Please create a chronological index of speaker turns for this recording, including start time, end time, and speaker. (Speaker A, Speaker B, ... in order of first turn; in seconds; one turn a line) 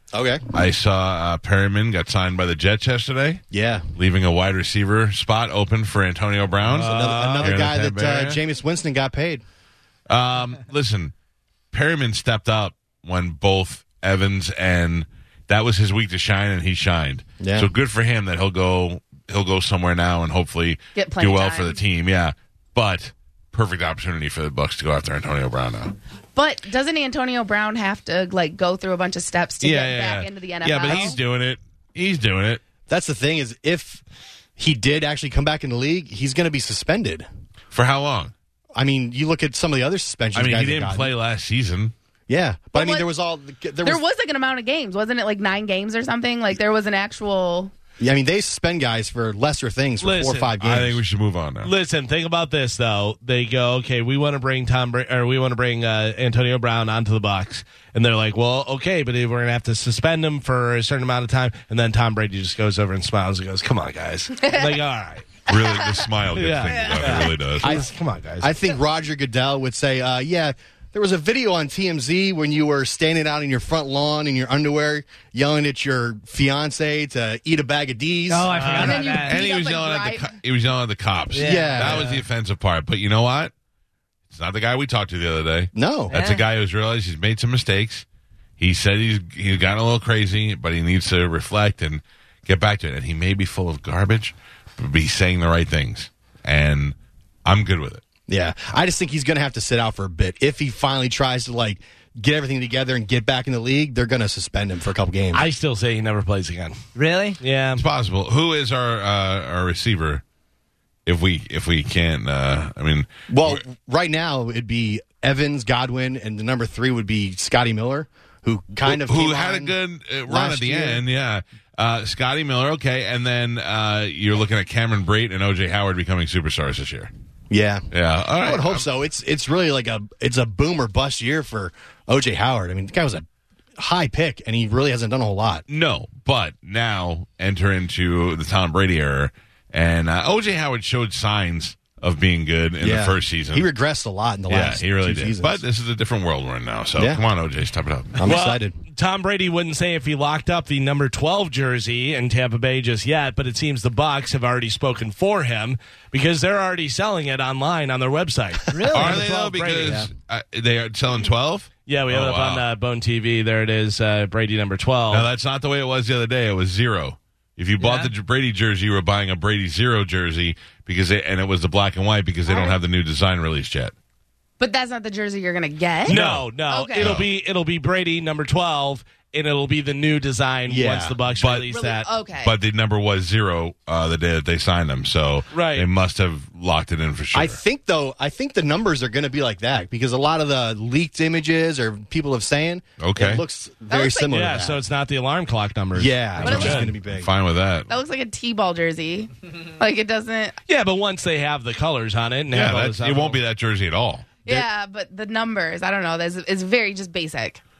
Speaker A: 0.1-0.4
Speaker B: 0.5-3.4
Speaker A: 3.5-3.9
Speaker B: 3.9-8.4
Speaker C: 6.7-7.5
Speaker A: 6.7-9.4
Speaker B: 10.1-11.1
Speaker B: 11.7-25.9
Speaker A: 17.4-17.7
Speaker D: 20.9-21.8
Speaker D: 26.3-31.2
Speaker B: 29.6-32.6
Speaker A: 32.9-34.0
Speaker A: 34.6-37.2
Speaker B: 37.7-38.3
Speaker A: 38.7-41.1
Speaker B: 40.3-41.9
Speaker A: 42.3-44.0
Speaker D: 42.7-43.1
Speaker D: 43.8-47.7
Speaker A: 48.0-51.0
Speaker C: 50.0-50.5
Speaker B: 50.6-51.7
Speaker C: 51.6-65.3
Speaker D: 64.4-64.8
Speaker B: 65.5-67.8
Speaker D: 65.5-66.1
Speaker C: 66.3-68.5
Speaker E: 66.7-67.2
Speaker A: 67.6-67.9
Speaker A: 68.4-78.5
Speaker E: 78.3-79.4
Speaker C: 78.5-79.0
Speaker D: 78.7-80.3
Speaker B: 79.1-83.5
Speaker E: 81.3-82.2
Speaker A: 81.4-82.1
Speaker B: 84.3-88.0
Speaker A: 85.7-86.1
Speaker E: 86.1-86.4
Speaker B: 88.6-98.0
Speaker A: 98.3-105.5
Speaker C: 105.3-106.8
Speaker E: 107.0-107.4
Speaker C: 107.4-107.8
Speaker B: 107.7-110.2
Speaker B: 111.0-113.6
Speaker A: 113.3-119.8
Speaker B: 118.8-127.1
Speaker A: 120.3-121.0
Speaker A: 127.5-127.9
Speaker B: 127.9-128.8
Speaker A: 128.4-133.2
Speaker A: 133.8-135.7
Speaker B: 135.7-143.7
Speaker A: 142.8-145.6
Speaker B: 144.5-148.2
Speaker A: 147.0-147.2
Speaker A: 148.2-148.8
Speaker C: 148.2-160.0
Speaker E: 158.7-159.3
Speaker B: 158.9-162.7
Speaker C: 161.8-165.3
Speaker B: 165.1-173.9
Speaker E: 167.8-168.1
Speaker D: 172.5-172.8
Speaker D: 174.6-177.1
Speaker B: 176.1-177.3
Speaker C: 176.1-182.1
Speaker A: 180.7-181.2
Speaker B: 181.4-181.7
Speaker D: 181.7-182.6
Speaker B: 182.4-187.6
Speaker C: 185.5-185.9
Speaker A: 187.3-194.8
Speaker B: 193.0-193.4
Speaker D: 193.9-194.3
Speaker C: 194.3-196.9
Speaker A: 195.9-197.3
Speaker B: 196.4-197.9
Speaker D: 196.4-196.8
Speaker D: 197.9-200.6
Speaker C: 200.7-203.4
Speaker B: 202.5-204.3
Speaker D: 204.4-207.6